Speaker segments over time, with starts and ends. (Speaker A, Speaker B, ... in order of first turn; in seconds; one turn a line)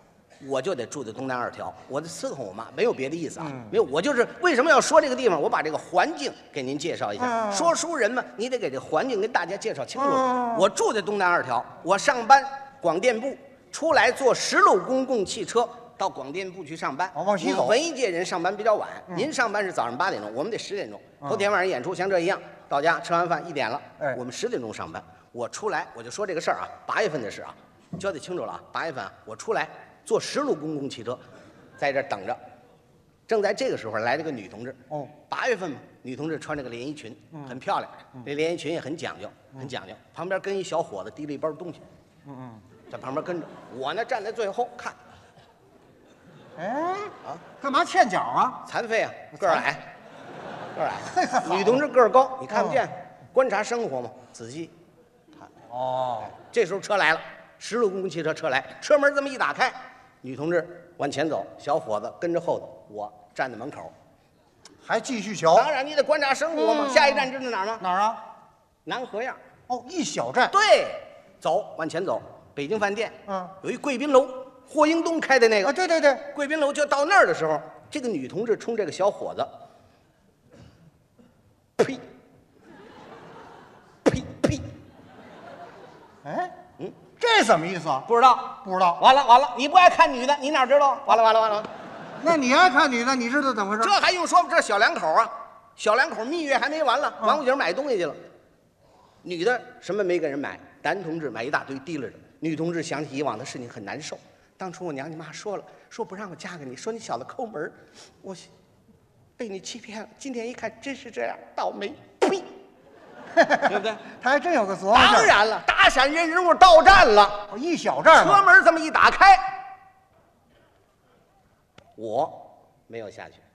Speaker A: 0.4-31.2
Speaker B: 3.4-3.7
Speaker B: 7.2-7.7
Speaker B: 10.0-10.7
Speaker B: 17.1-17.8
Speaker A: 31.8-32.4
Speaker A: 33.3-41.8
Speaker B: 42.3-42.6
Speaker A: 42.9-45.0
Speaker B: 46.6-48.6
Speaker A: 48.6-49.9
Speaker B: 49.4-49.6
Speaker A: 50.8-54.7
Speaker B: 51.1-51.8
Speaker B: 52.5-52.8
Speaker B: 55.7-56.3
Speaker A: 56.4-63.9
Speaker B: 64.8-65.7
Speaker A: 65.5-67.8
Speaker B: 66.5-67.3
Speaker B: 67.8-68.2
Speaker A: 68.9-69.4
Speaker B: 69.7-70.5
Speaker A: 70.5-75.8
Speaker B: 73.3-73.5
Speaker B: 75.7-76.3
Speaker A: 76.3-79.5
Speaker A: 84.1-84.6
Speaker B: 86.2-86.5
Speaker B: 87.2-88.1
Speaker A: 88.1-91.7
Speaker B: 88.6-89.0
Speaker B: 92.2-93.9
Speaker A: 93.8-98.2
Speaker A: 99.2-108.5
Speaker A: 109.4-112.5
Speaker B: 113.3-115.3
Speaker A: 113.7-114.0
Speaker A: 114.9-117.5
Speaker B: 117.5-118.4
Speaker A: 118.1-119.6
Speaker A: 122.0-123.4